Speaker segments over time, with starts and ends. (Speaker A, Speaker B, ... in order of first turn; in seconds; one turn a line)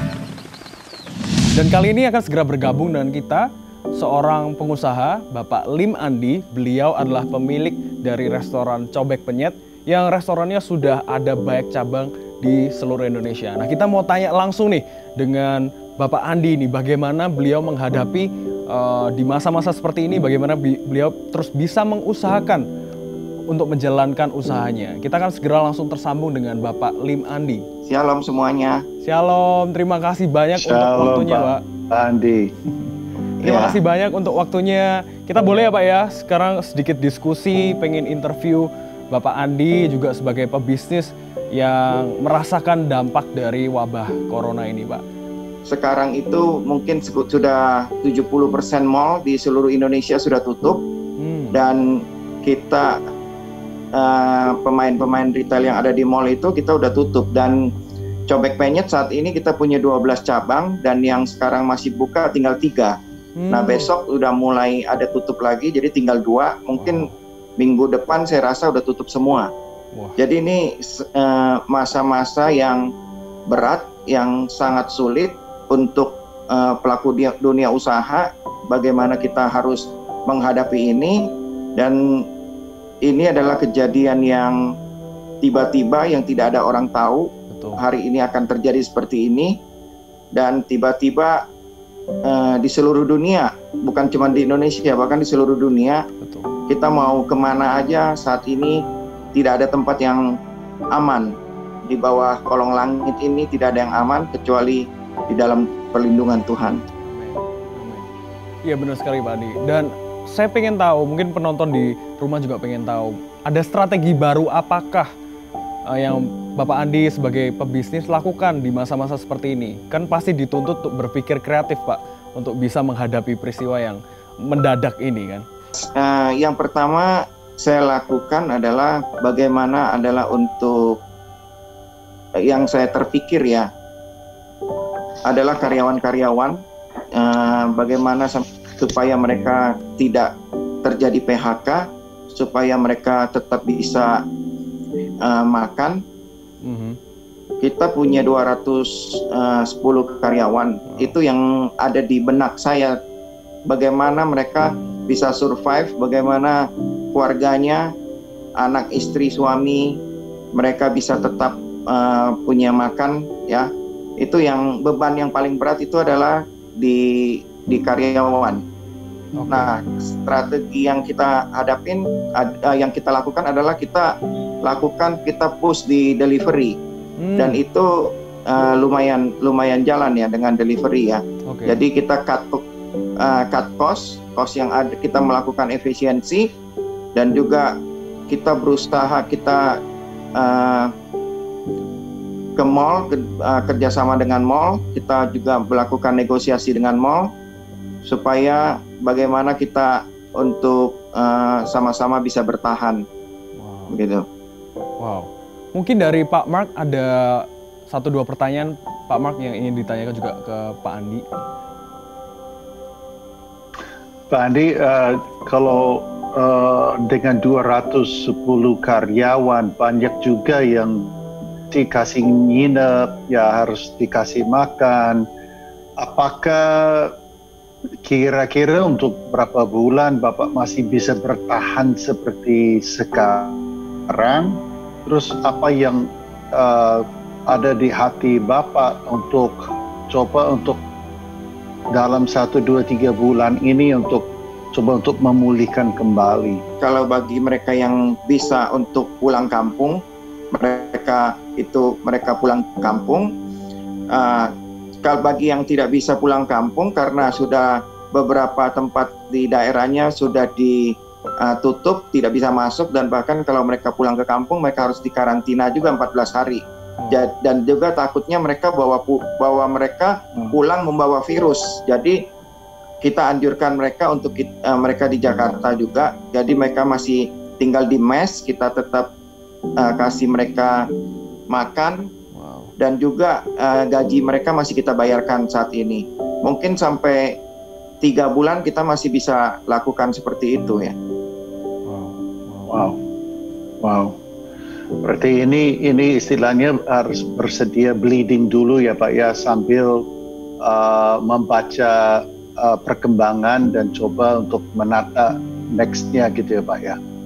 Speaker A: 1.5-22.6
Speaker A: 23.5-27.6
Speaker B: 27.8-28.8
Speaker A: 29.0-31.6
Speaker C: 30.5-32.5
Speaker B: 33.4-33.8
Speaker A: 33.4-45.0
Speaker B: 45.6-50.8
Speaker A: 51.2-51.6
Speaker B: 51.5-51.9
Speaker B: 52.4-53.0
Speaker B: 53.9-57.6
Speaker B: 58.3-63.0
Speaker A: 63.4-63.9
Speaker B: 63.5-67.1
Speaker A: 66.8-67.2
Speaker B: 67.6-69.5
Speaker B: 70.2-72.8
Speaker B: 73.5-82.2
Speaker B: 83.0-84.6
Speaker B: 85.4-89.5
Speaker A: 87.5-87.8
Speaker B: 90.3-91.4
Speaker B: 92.2-96.0
Speaker A: 96.2-96.5
Speaker B: 96.7-98.8
Speaker B: 99.3-100.2
Speaker B: 100.9-101.3
Speaker B: 101.9-106.8
Speaker A: 107.1-108.1
Speaker A: 108.7-115.1
Speaker A: 115.9-125.4
Speaker B: 125.8-131.0
Speaker B: 132.4-133.7
Speaker B: 135.2-136.6
Speaker B: 137.1-140.3
Speaker B: 140.8-144.2
Speaker B: 145.2-146.0
Speaker A: 146.6-147.0
Speaker B: 147.6-152.9
Speaker B: 153.7-157.9
Speaker B: 158.6-160.0
Speaker B: 160.5-168.6
Speaker A: 169.3-169.7
Speaker B: 169.5-174.1
Speaker B: 174.6-176.8
Speaker A: 177.2-177.6
Speaker B: 177.4-182.6
Speaker A: 181.5-181.8
Speaker B: 183.2-186.5
Speaker B: 187.1-187.7
Speaker B: 188.3-189.8
Speaker B: 190.3-190.9
Speaker B: 192.6-197.3
Speaker B: 198.0-203.0
Speaker A: 203.6-204.0
Speaker B: 203.9-204.2
Speaker A: 205.0-211.2
Speaker C: 214.3-221.2
Speaker C: 221.7-225.2
Speaker C: 226.0-227.1
Speaker C: 228.0-233.6
Speaker C: 234.1-240.8
Speaker C: 241.9-246.6
Speaker B: 246.8-250.0
Speaker B: 250.5-253.3
Speaker B: 254.1-254.5
Speaker B: 255.0-272.2
Speaker A: 267.0-267.2
Speaker B: 273.0-279.1
Speaker B: 279.8-280.9
Speaker B: 281.5-282.0
Speaker A: 282.3-282.7
Speaker B: 282.8-287.4
Speaker B: 288.0-290.9
Speaker A: 291.9-292.8
Speaker C: 292.7-293.0
Speaker C: 293.8-294.1
Speaker C: 295.0-300.0
Speaker C: 300.6-307.0